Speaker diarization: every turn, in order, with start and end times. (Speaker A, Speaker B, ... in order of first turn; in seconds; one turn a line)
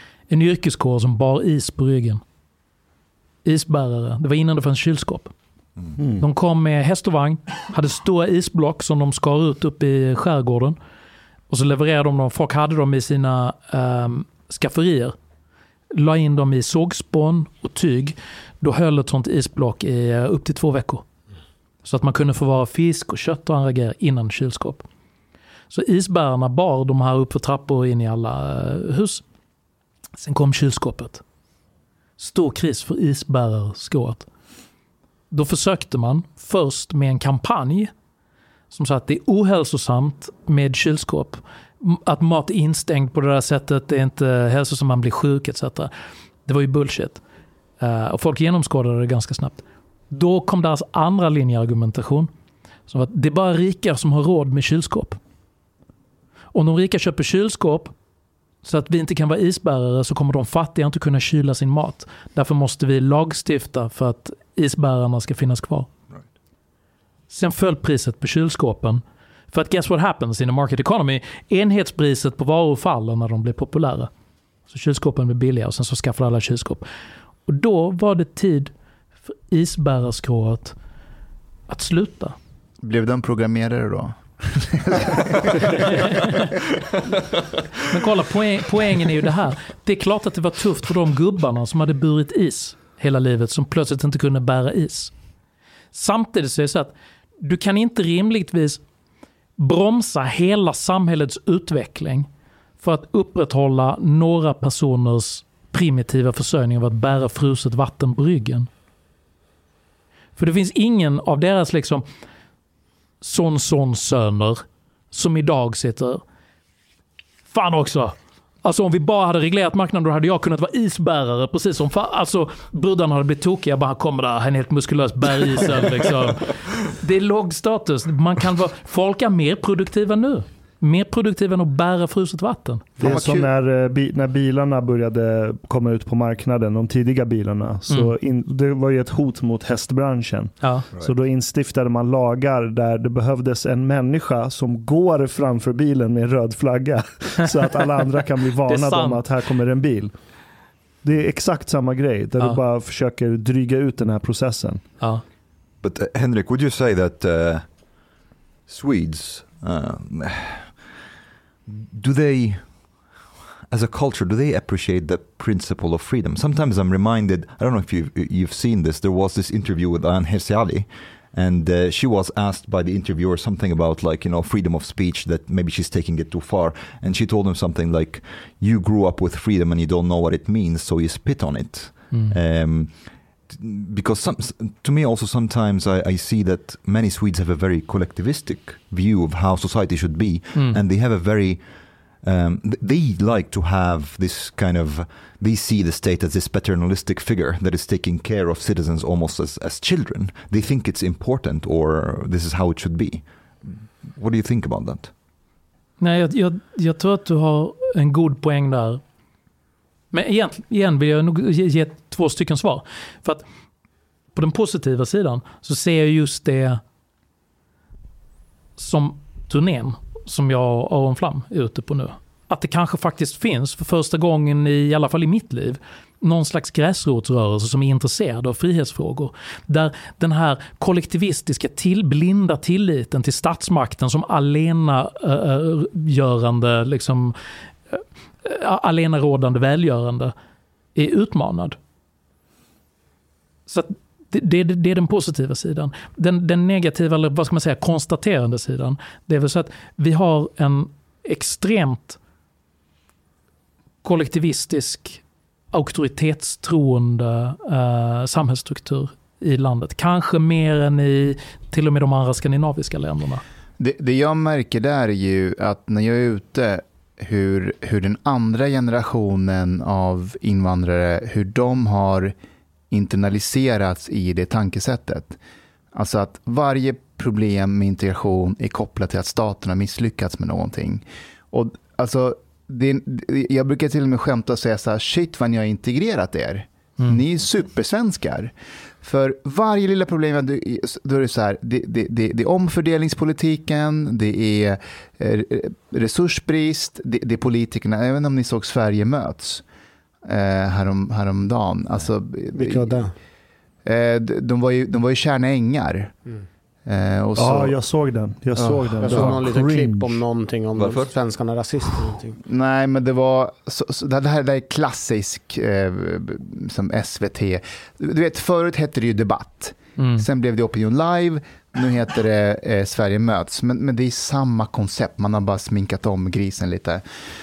Speaker A: 0.3-2.2
Speaker A: 3.5-5.3
Speaker B: 6.0-6.3
Speaker A: 6.2-10.8
Speaker A: 11.5-15.2
Speaker A: 15.9-21.1
Speaker A: 21.8-24.9
Speaker A: 25.7-29.2
Speaker A: 30.2-31.2
Speaker A: 32.2-34.3
Speaker A: 35.3-37.9
Speaker A: 38.7-45.9
Speaker A: 46.5-47.2
Speaker A: 47.8-52.3
Speaker A: 52.9-55.2
Speaker A: 56.5-57.9
Speaker A: 58.6-65.9
Speaker A: 67.3-74.1
Speaker A: 74.7-76.9
Speaker A: 77.5-78.7
Speaker A: 79.5-80.8
Speaker A: 81.7-82.4
Speaker C: 82.8-86.1
Speaker A: 86.1-86.4
Speaker A: 87.9-95.1
Speaker A: 95.9-98.8
Speaker A: 99.6-102.3
Speaker A: 102.8-108.7
Speaker A: 110.4-112.0
Speaker A: 113.2-116.2
Speaker A: 117.5-132.9
Speaker C: 133.0-133.5
Speaker B: 133.0-150.1
Speaker A: 140.6-140.9
Speaker A: 148.7-149.2
Speaker B: 151.0-154.8
Speaker D: 155.8-157.7
Speaker D: 158.7-160.8
Speaker D: 161.7-162.8
Speaker D: 163.7-191.7
Speaker A: 190.6-190.8
Speaker D: 192.2-205.1
Speaker A: 206.0-209.0
Speaker A: 210.1-213.4
Speaker A: 214.3-216.8
Speaker A: 218.8-237.4
Speaker A: 237.9-240.3
Speaker A: 240.9-241.8
Speaker A: 243.7-252.2
Speaker A: 254.0-263.4
Speaker C: 263.8-272.3
Speaker C: 272.9-275.4
Speaker C: 275.9-299.6
Speaker C: 300.3-303.0
Speaker E: 302.6-303.1
Speaker C: 303.9-306.2
Speaker C: 306.9-307.8
Speaker B: 307.4-310.2
Speaker C: 308.6-309.5
Speaker E: 308.8-312.4
Speaker D: 310.8-311.1
Speaker C: 312.5-327.0
Speaker A: 320.0-320.2